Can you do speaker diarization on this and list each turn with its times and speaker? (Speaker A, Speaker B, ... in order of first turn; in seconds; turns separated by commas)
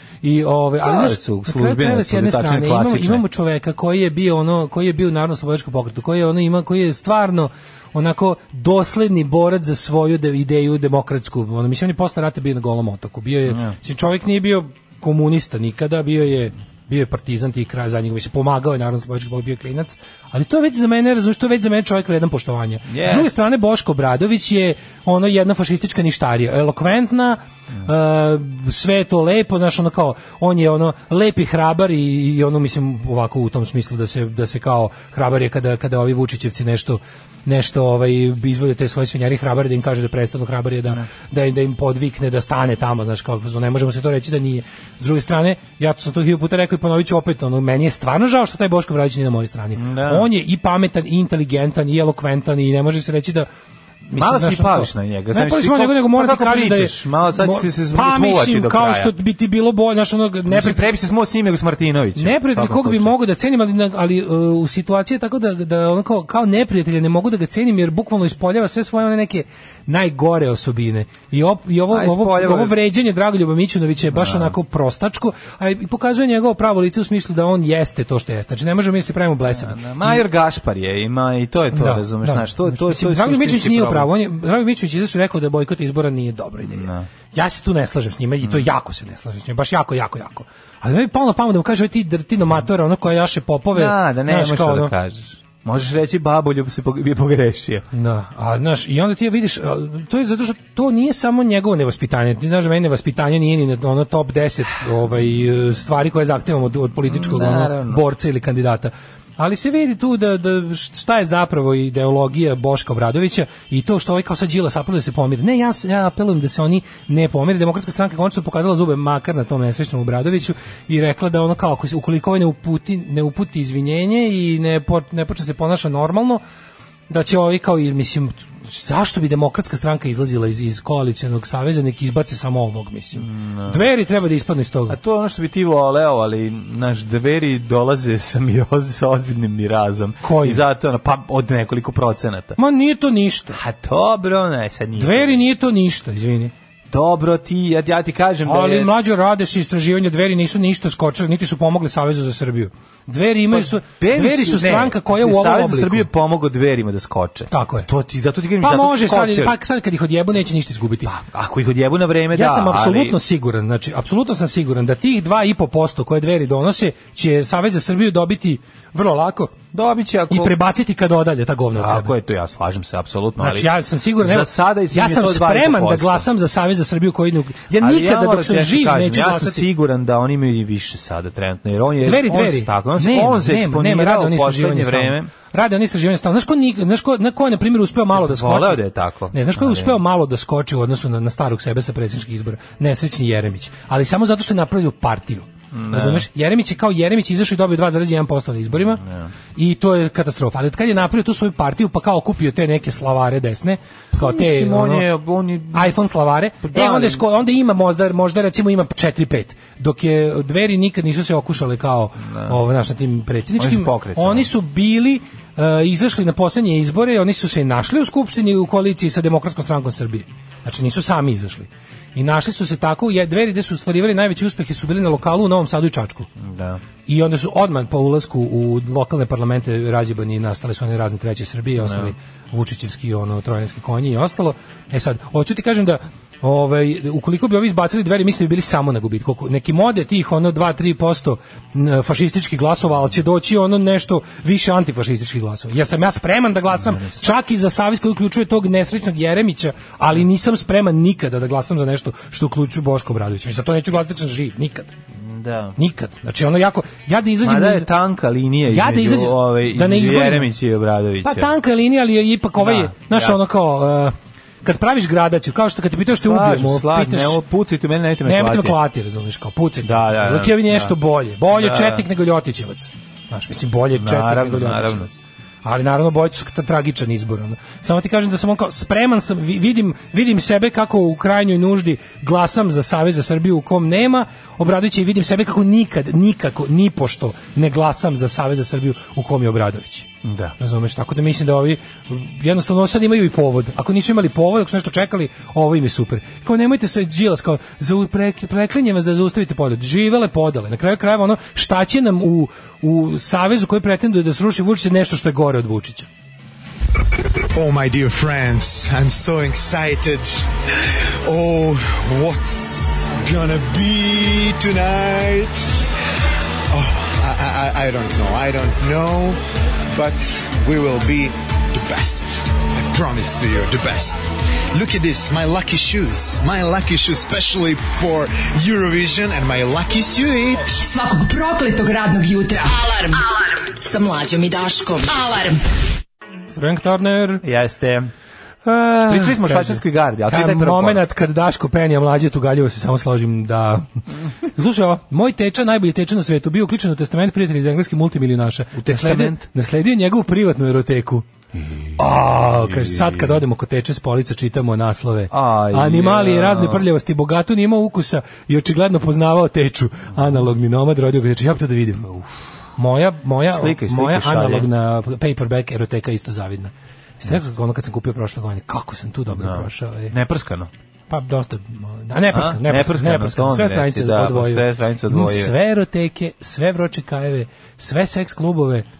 Speaker A: 0.2-53.5, Speaker B: 0.8-3.2, Speaker B: 13.5-13.8, Speaker B: 22.9-23.3, Speaker B: 49.8-50.3, Speaker A: 54.0-60.8, Speaker B: 54.1-59.1, Speaker B: 60.5-63.1, Speaker A: 62.1-80.2, Speaker B: 71.9-72.8, Speaker B: 74.1-74.5, Speaker B: 79.5-84.1, Speaker A: 81.7-94.9, Speaker B: 86.6-87.1, Speaker B: 93.7-97.8, Speaker A: 97.9-126.4, Speaker B: 107.0-108.0, Speaker A: 127.1-135.0, Speaker B: 133.2-133.9, Speaker B: 134.9-142.6, Speaker A: 140.2-140.6, Speaker A: 142.6-143.6, Speaker B: 143.5-145.4, Speaker A: 145.0-146.5, Speaker B: 146.9-148.9, Speaker A: 148.4-156.1, Speaker B: 153.5-159.6, Speaker A: 157.5-157.9, Speaker A: 158.6-161.1, Speaker B: 161.0-163.2, Speaker A: 162.3-169.5, Speaker B: 169.7-170.5, Speaker A: 170.3-172.1, Speaker B: 171.7-176.3, Speaker A: 173.4-179.7, Speaker B: 177.8-185.3, Speaker A: 182.0-199.0, Speaker B: 188.1-190.0, Speaker B: 195.7-196.3, Speaker B: 199.0-199.3, Speaker A: 199.6-205.1, Speaker B: 204.1-205.9, Speaker A: 205.7-226.3, Speaker B: 206.6-207.2, Speaker B: 212.2-212.6, Speaker B: 213.6-214.5, Speaker B: 226.4-226.8, Speaker A: 227.1-254.9, Speaker B: 231.8-232.1, Speaker B: 246.7-247.2, Speaker B: 255.2-255.8, Speaker A: 255.8-257.9, Speaker B: 257.4-261.5, Speaker A: 258.7-260.5, Speaker A: 261.2-267.4, Speaker B: 262.6-263.4, Speaker B: 266.2-268.8, Speaker A: 268.2-290.1, Speaker B: 269.8-270.9, Speaker B: 271.5-272.1, Speaker B: 273.9-275.1, Speaker B: 290.2-290.6, Speaker A: 290.6-306.1, Speaker C: 307.5-310.5, Speaker C: 311.2-315.8, Speaker C: 316.7-319.4, Speaker C: 319.9-324.2, Speaker C: 324.7-330.8, Speaker D: 330.8-335.6, Speaker A: 336.5-337.4, Speaker B: 337.4-338.1, Speaker A: 338.6-343.9, Speaker B: 339.1-341.0, Speaker A: 344.5-351.2, Speaker B: 348.7-349.4, Speaker B: 351.5-353.4, Speaker A: 352.0-362.0, Speaker B: 355.3-356.9, Speaker B: 360.1-360.4, Speaker B: 362.0-362.4, Speaker A: 362.8-370.1, Speaker B: 363.5-364.7, Speaker B: 369.3-370.7, Speaker A: 371.1-378.8, Speaker B: 372.3-375.5